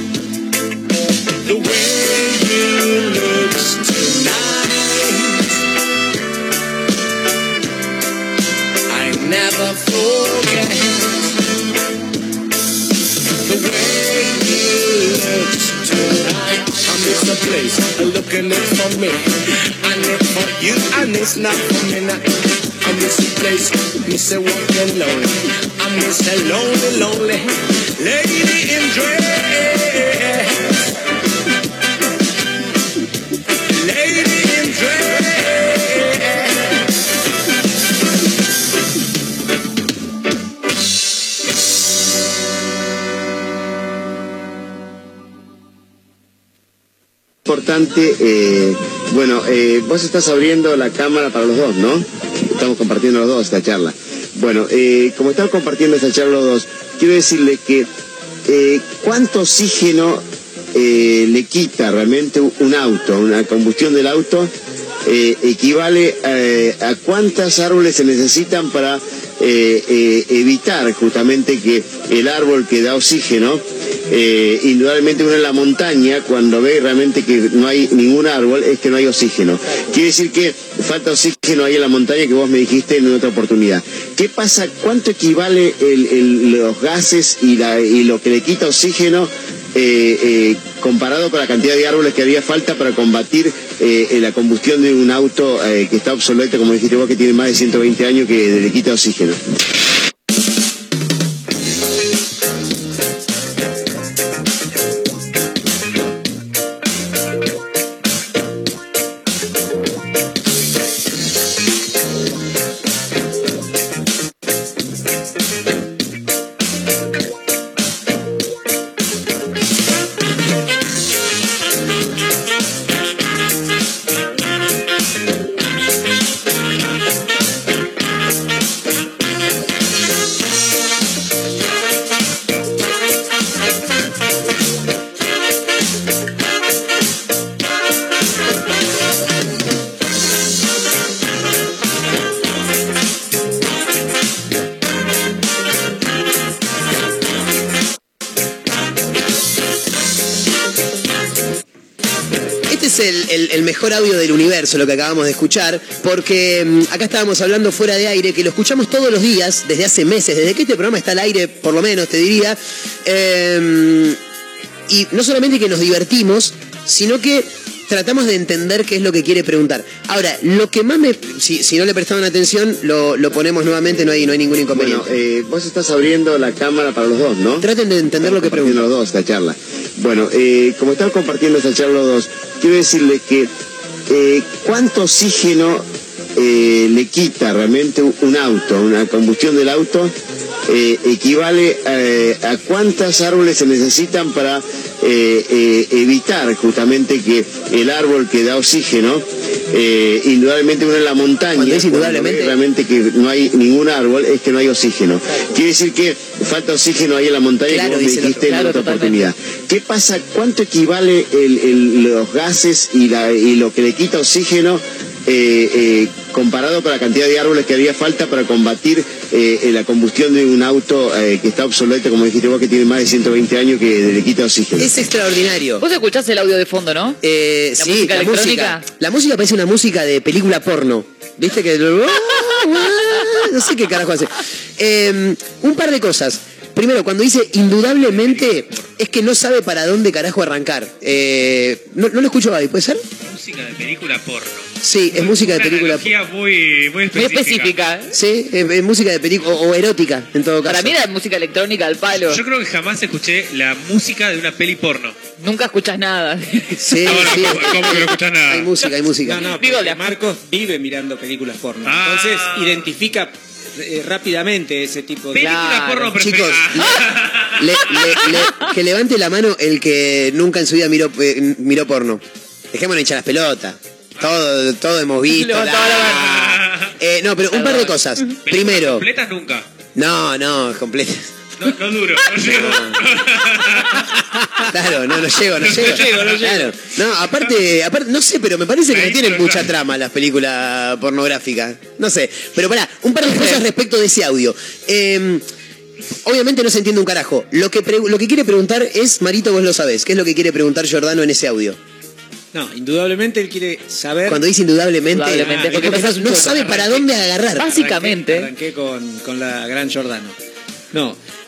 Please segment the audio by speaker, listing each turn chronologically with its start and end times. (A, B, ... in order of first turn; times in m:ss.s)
0:01.4-0:05.5 A
0:08.9-0:11.3 A
0:13.4-0:30.8 A
0:33.6-0:36.8 A
0:47.4-0:57.9 B
0:58.5-1:04.5 B
1:05.0-1:39.4 B
2:32.7-2:44.2 C
2:44.9-2:55.1 C
2:54.7-2:57.7 B
2:57.6-2:58.8 C
2:58.2-3:03.5 B
3:04.1-3:10.1 B
3:10.7-3:44.9 B
3:21.5-3:22.6 C
3:27.7-3:28.6 C
3:28.5-3:29.3 D
3:44.8-3:45.8 C
3:45.8-3:47.2 D
3:47.2-4:03.0 C
3:47.8-3:48.8 D
3:58.0-3:58.9 E
4:03.2-4:07.7 E
4:04.8-4:06.1 C
4:07.1-4:08.1 D
4:08.1-4:10.9 C
4:10.6-4:12.4 D
4:12.1-4:15.2 E
4:15.4-4:17.6 D
4:16.8-4:19.4 C
4:17.0-4:18.7 E
4:19.2-4:25.9 F
4:19.6-4:20.2 D
4:21.8-4:22.9 E
4:25.3-4:28.4 E
4:25.4-4:26.1 D
4:26.2-4:39.0 C
4:35.3-4:36.5 D
4:36.2-4:36.9 E
4:37.5-4:38.3 D
4:38.4-4:39.7 E
4:39.9-4:41.3 C
4:41.6-4:44.2 E
4:42.3-4:43.0 C
4:44.7-4:55.4 C
4:45.6-4:46.6 E
4:45.7-4:46.7 F
4:48.9-4:49.7 E
4:56.2-5:01.8 C
5:02.5-5:04.4 F
5:04.3-5:07.6 C
5:05.1-5:06.7 D
5:05.4-5:07.1 F
5:07.6-5:08.5 D
5:07.6-5:10.3 F
5:10.9-5:11.2 F